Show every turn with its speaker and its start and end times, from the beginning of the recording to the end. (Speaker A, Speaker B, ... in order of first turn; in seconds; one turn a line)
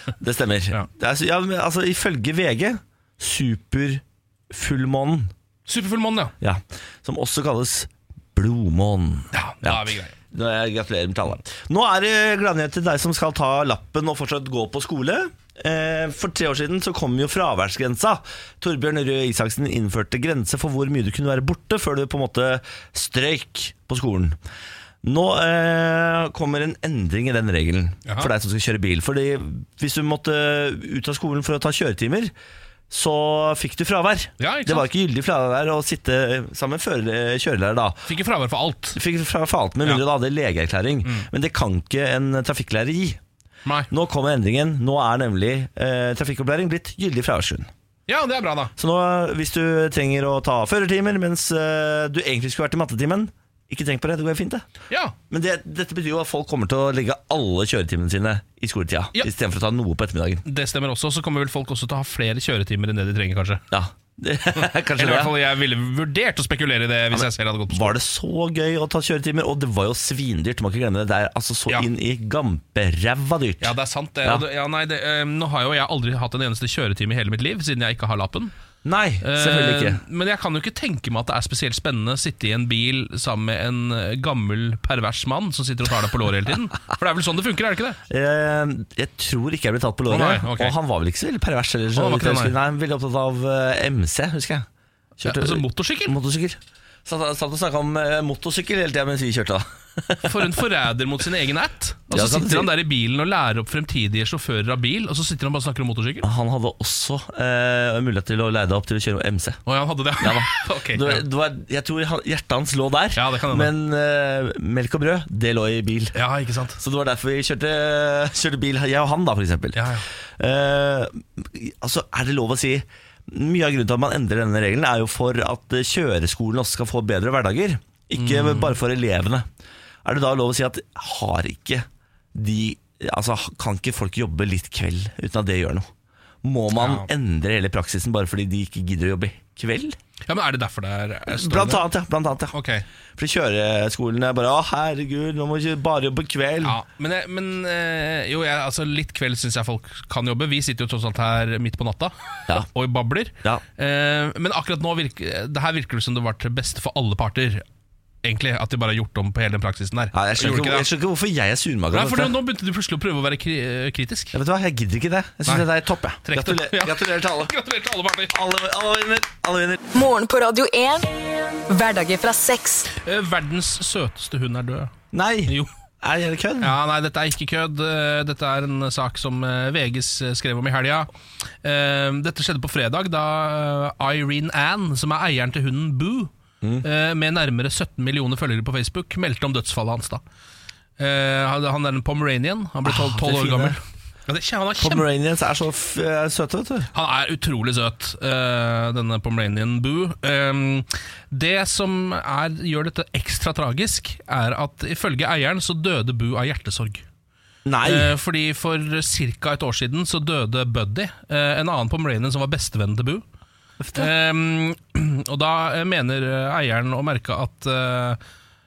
Speaker A: 0.2-5.3
Speaker B: 5.7-6.3
Speaker A: 6.4-24.4
Speaker B: 9.3-10.1
Speaker A: 25.0-32.3
Speaker B: 28.1-28.3
Speaker A: 32.9-38.0
Speaker B: 34.4-34.9
Speaker B: 38.1-39.0
Speaker A: 38.9-43.2
Speaker B: 43.6-43.9
Speaker A: 43.9-47.7
Speaker B: 48.1-48.7
Speaker A: 48.8-54.6
Speaker B: 54.9-55.1
Speaker A: 55.3-60.4
Speaker B: 60.4-63.6
Speaker A: 63.7-65.3
Speaker B: 65.0-67.9
Speaker A: 67.1-73.7
Speaker B: 73.6-78.5
Speaker A: 78.8-80.0
Speaker B: 79.2-88.0
Speaker A: 88.1-94.7
Speaker B: 90.1-90.7
Speaker B: 91.9-92.5
Speaker A: 95.2-100.5
Speaker B: 95.2-96.1
Speaker B: 100.2-106.3
Speaker A: 102.1-102.7
Speaker A: 106.2-109.6
Speaker B: 109.7-111.2
Speaker A: 110.2-116.2
Speaker B: 113.2-113.7
Speaker B: 116.1-116.8
Speaker A: 116.8-119.9
Speaker B: 119.7-120.0
Speaker A: 120.4-129.4
Speaker B: 128.2-128.8
Speaker A: 130.0-135.9
Speaker A: 136.4-140.0
Speaker B: 136.8-137.1
Speaker B: 140.3-141.9
Speaker A: 141.3-142.5
Speaker B: 142.5-142.8
Speaker A: 143.2-146.8
Speaker B: 146.6-157.6
Speaker B: 158.2-160.9
Speaker A: 160.1-162.3
Speaker B: 161.9-164.3
Speaker A: 164.3-167.5
Speaker B: 166.2-168.3
Speaker A: 168.3-169.8
Speaker C: 169.9-172.9
Speaker B: 173.0-174.9
Speaker A: 175.1-176.7
Speaker B: 176.6-181.1
Speaker B: 181.6-186.3
Speaker B: 186.8-190.2
Speaker B: 191.0-195.1
Speaker A: 192.8-193.8
Speaker A: 194.8-196.9
Speaker B: 196.9-207.0
Speaker A: 207.6-208.1
Speaker B: 207.8-213.2
Speaker A: 213.8-214.1
Speaker B: 213.9-218.2